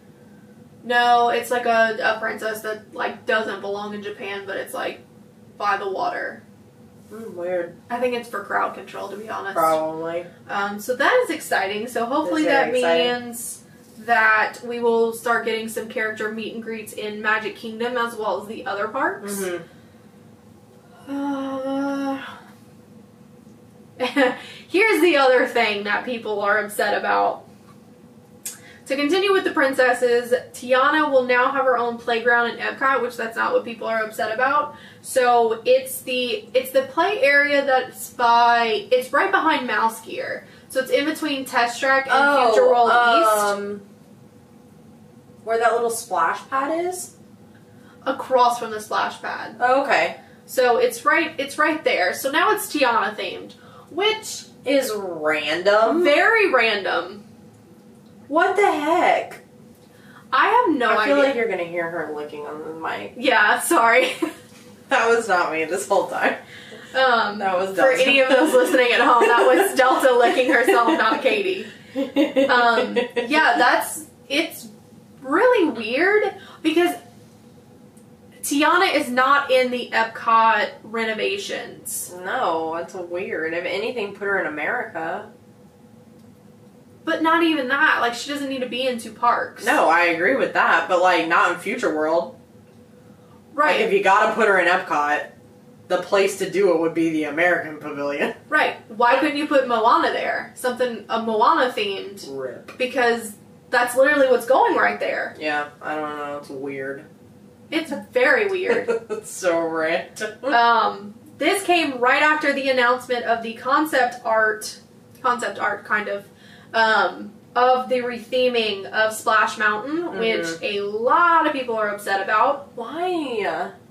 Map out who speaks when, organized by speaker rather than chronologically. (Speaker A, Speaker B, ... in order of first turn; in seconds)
Speaker A: 0.8-5.0, 5.6-6.4, 7.9-9.8, 10.5-19.5, 21.1-22.3, 24.0-27.4, 28.8-43.5, 48.0-49.6, 50.5-54.5, 55.8-57.2, 60.3-61.4, 63.1-64.3, 66.9-71.7, 72.4-74.7, 75.2-77.0, 78.4-82.1, 87.0-89.7, 93.5-93.9, 98.5-105.3, 107.7-108.9, 110.5-122.7
Speaker B: 7.1-7.8, 9.5-10.3, 12.2-13.2, 19.2-19.6, 42.1-43.8, 45.4-47.1, 49.6-50.2, 54.6-56.1, 58.3-59.4, 60.9-63.1, 64.9-66.4, 67.4-69.8, 70.7-71.2, 71.9-73.3, 82.1-85.3, 89.6-92.3, 93.6-95.3, 95.9-98.4, 102.2-102.7, 105.3-107.1, 108.7-110.6, 120.1-120.6, 122.8-123.7